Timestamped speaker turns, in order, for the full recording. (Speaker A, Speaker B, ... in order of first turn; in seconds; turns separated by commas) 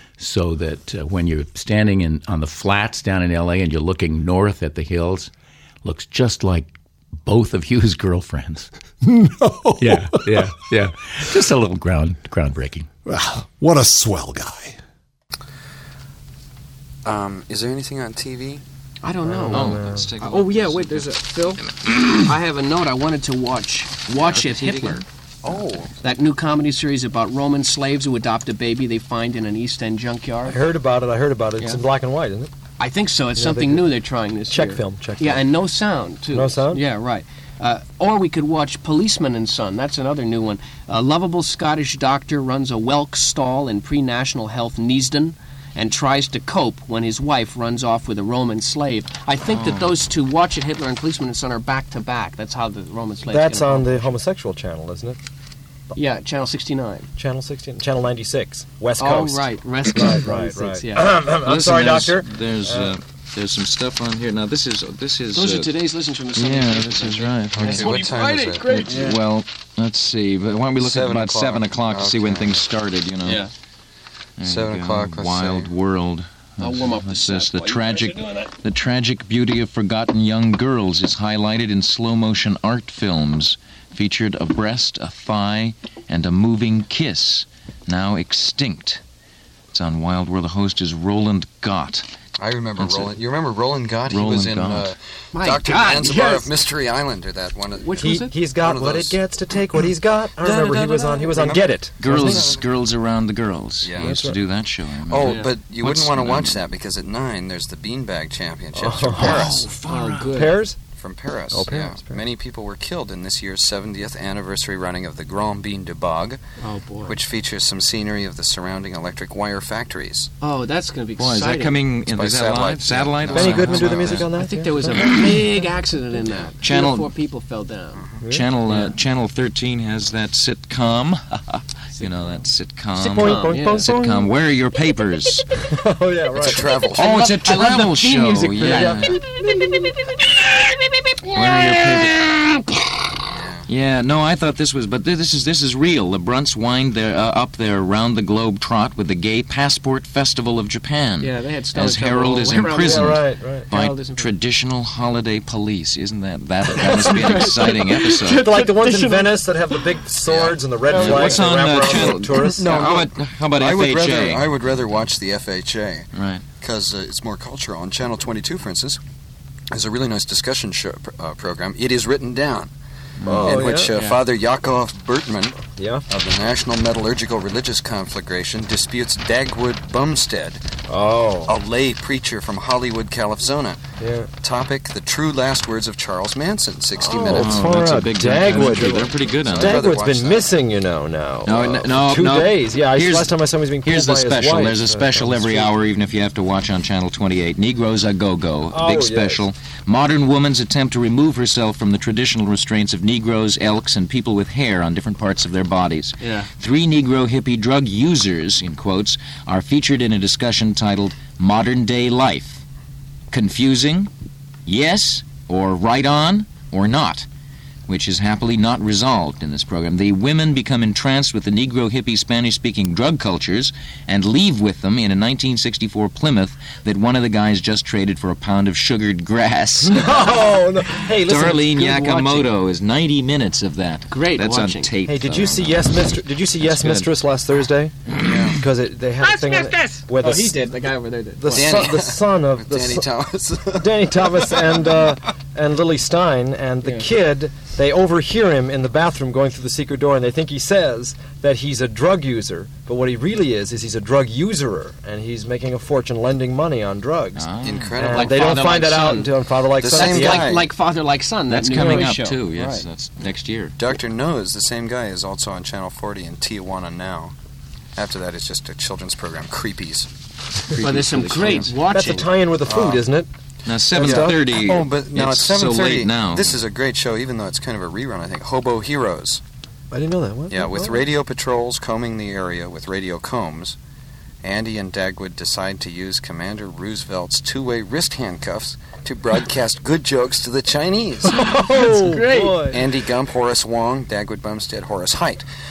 Speaker A: 0.2-5.3, Speaker A: 5.8-8.7, Speaker B: 9.0-10.3, Speaker A: 9.8-12.9, Speaker B: 13.1-14.8, Speaker C: 17.0-18.6, Speaker D: 19.0-25.1, Speaker E: 19.2-20.1, Speaker F: 19.5-21.7, Speaker F: 24.2-25.0, Speaker C: 25.4-26.0, Speaker D: 26.0-30.7, Speaker E: 30.4-32.5, Speaker D: 32.8-54.2, Speaker E: 33.4-33.9, Speaker E: 34.5-35.4, Speaker E: 36.3-36.8, Speaker F: 49.5-49.9, Speaker E: 53.2-55.2, Speaker D: 55.9-57.1, Speaker E: 57.2-63.0, Speaker D: 59.0-61.2, Speaker F: 61.4-65.7, Speaker D: 65.3-69.2, Speaker F: 66.3-68.1, Speaker C: 67.5-69.1, Speaker F: 68.7-73.4, Speaker C: 70.8-72.7, Speaker D: 73.2-73.5, Speaker F: 74.4-89.0, Speaker C: 74.4-75.7, Speaker D: 76.6-78.5, Speaker F: 89.7-92.1, Speaker C: 92.4-98.0, Speaker F: 92.8-93.1, Speaker F: 94.1-94.9, Speaker D: 95.3-96.5, Speaker D: 97.8-98.4, Speaker E: 98.0-102.5, Speaker C: 98.5-99.2, Speaker F: 100.4-101.3, Speaker C: 101.4-102.7, Speaker F: 102.0-106.6, Speaker C: 103.8-104.2, Speaker E: 103.9-104.4, Speaker C: 105.1-109.7, Speaker D: 105.2-105.5, Speaker E: 108.7-110.8, Speaker D: 109.2-110.6, Speaker F: 109.3-109.8, Speaker C: 110.9-116.4, Speaker E: 111.5-112.2, Speaker D: 116.6-117.2, Speaker C: 117.0-120.3, Speaker D: 120.4-121.9, Speaker F: 121.2-124.3, Speaker C: 122.0-124.2, Speaker E: 123.2-125.7, Speaker D: 123.6-128.1, Speaker F: 125.0-125.3, Speaker F: 126.6-127.1, Speaker E: 128.2-128.5, Speaker F: 128.3-135.5, Speaker D: 128.7-128.9, Speaker E: 132.9-134.3, Speaker D: 133.2-133.9, Speaker E: 135.7-136.7, Speaker F: 136.4-139.2, Speaker C: 136.4-137.2, Speaker D: 137.0-139.2, Speaker E: 138.6-139.2, Speaker F: 141.3-142.8, Speaker C: 143.3-143.6, Speaker F: 143.7-158.5, Speaker D: 151.2-153.2, Speaker E: 152.8-153.7, Speaker D: 153.7-154.3, Speaker D: 156.7-160.0, Speaker E: 156.7-157.2, Speaker E: 158.3-163.1, Speaker C: 160.3-160.6, Speaker D: 160.9-161.3, Speaker F: 160.9-164.5, Speaker C: 161.3-161.7, Speaker C: 162.4-166.1, Speaker E: 164.0-164.2, Speaker F: 166.1-166.4, Speaker C: 166.6-169.0, Speaker C: 169.7-172.7, Speaker F: 173.2-173.5, Speaker E: 173.2-174.1, Speaker C: 173.4-180.6, Speaker E: 175.7-176.0, Speaker E: 180.9-181.5, Speaker C: 181.4-183.8, Speaker E: 184.0-184.3, Speaker C: 184.4-187.7, Speaker E: 186.9-195.7, Speaker F: 187.3-189.9, Speaker C: 189.2-190.5, Speaker F: 191.4-212.6, Speaker E: 198.7-199.4, Speaker D: 206.2-206.5, Speaker F: 213.3-214.1, Speaker F: 214.7-217.3, Speaker F: 217.9-230.3, Speaker E: 229.8-231.9, Speaker F: 231.1-237.1, Speaker D: 231.7-232.5, Speaker D: 234.1-234.9, Speaker E: 235.1-240.6, Speaker C: 238.2-238.6, Speaker D: 239.2-241.7, Speaker E: 241.4-243.1, Speaker C: 241.5-244.7, Speaker E: 243.8-260.6, Speaker D: 246.8-247.1, Speaker F: 257.4-258.0, Speaker C: 257.6-258.3, Speaker D: 258.1-262.8, Speaker C: 259.8-260.7, Speaker F: 261.5-263.8, Speaker E: 261.8-262.1, Speaker C: 263.8-267.3, Speaker C: 267.9-270.1, Speaker F: 270.5-271.8, Speaker D: 270.8-272.3, Speaker C: 270.9-271.7, Speaker E: 271.9-273.3, Speaker C: 272.6-273.0, Speaker F: 273.6-276.6, Speaker E: 273.9-274.8, Speaker C: 273.9-279.4, Speaker E: 279.9-281.0, Speaker C: 280.5-283.8, Speaker C: 284.4-291.4, Speaker E: 291.3-292.8, Speaker D: 291.7-292.7, Speaker C: 292.7-295.4